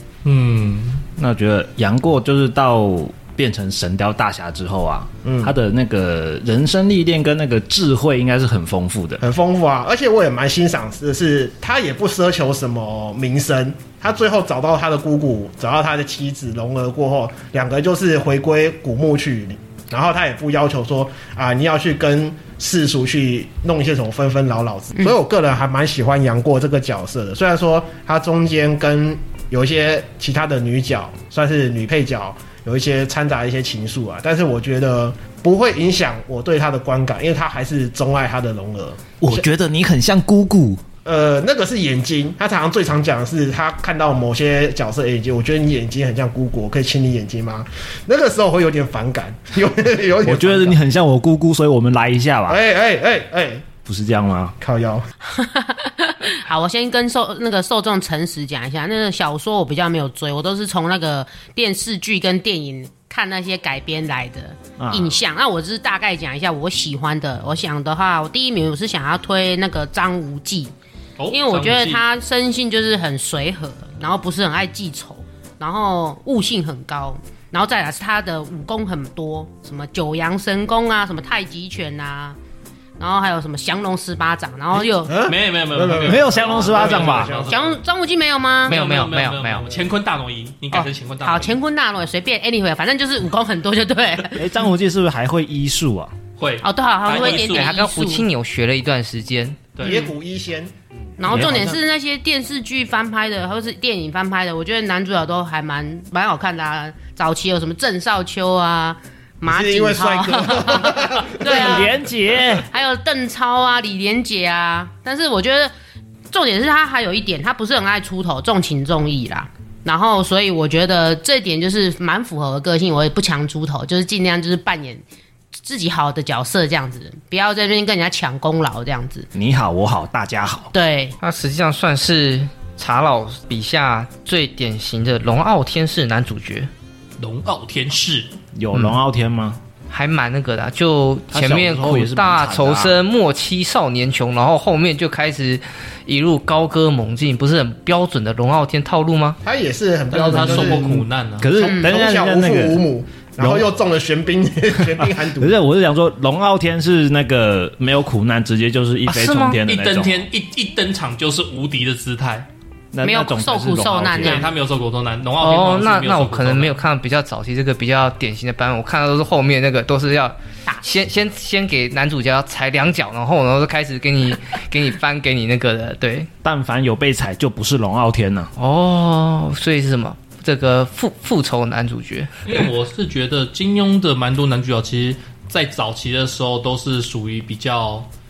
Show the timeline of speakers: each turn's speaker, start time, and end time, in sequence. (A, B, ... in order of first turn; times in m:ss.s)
0:00.2-0:01.0 A
0:01.2-0:09.2 B
0:05.2-0:05.5 C
0:09.2-0:39.4 C
0:39.2-0:40.8 B
0:41.0-0:50.8 C
0:50.2-0:52.6 B
0:52.5-0:53.7 C
0:53.8-0:54.6 B
0:54.6-0:55.1 C
0:55.2-1:10.7 D
1:04.8-1:05.2 B
1:11.2-1:12.0 A
1:11.3-1:22.4 D
1:23.0-1:25.2 D
1:25.1-1:27.8 C
1:25.2-1:27.8 A
1:26.0-1:27.4 B
1:27.5-1:28.8 D
1:28.6-1:29.7 E
1:28.7-1:31.6 A
1:30.7-1:34.5 D
1:34.4-1:36.1 B
1:36.4-1:37.7 A
1:36.6-1:38.3 D
1:37.1-1:39.7 E
1:39.7-1:40.1 A
1:39.8-1:41.7 C
1:41.2-1:51.9 D
1:41.3-1:41.8 B
1:49.4-1:51.9 C
1:51.4-1:52.7 B
1:52.7-1:55.7 D
1:56.3-2:05.0 D
2:05.6-2:09.3 D
2:09.3-2:10.7 B
2:10.7-2:11.2 D
2:11.2-2:16.7 E
2:17.2-2:18.3 A
2:18.5-2:19.6 B
2:19.9-2:29.4 E
2:21.3-2:23.0 B
2:29.4-2:31.0 C
2:30.1-2:31.5 A
2:30.3-2:32.8 B
2:31.5-2:35.5 C
2:31.6-2:31.9 D
2:33.4-2:33.7 B
2:34.8-2:40.3 B
2:39.0-2:39.6 E
2:39.6-2:42.5 A
2:42.9-2:44.5 B
2:43.0-2:44.5 D
2:44.2-2:46.8 A
2:45.4-2:56.3 E
2:56.4-2:58.5 B
2:58.6-3:02.5 E
3:02.5-3:08.1 A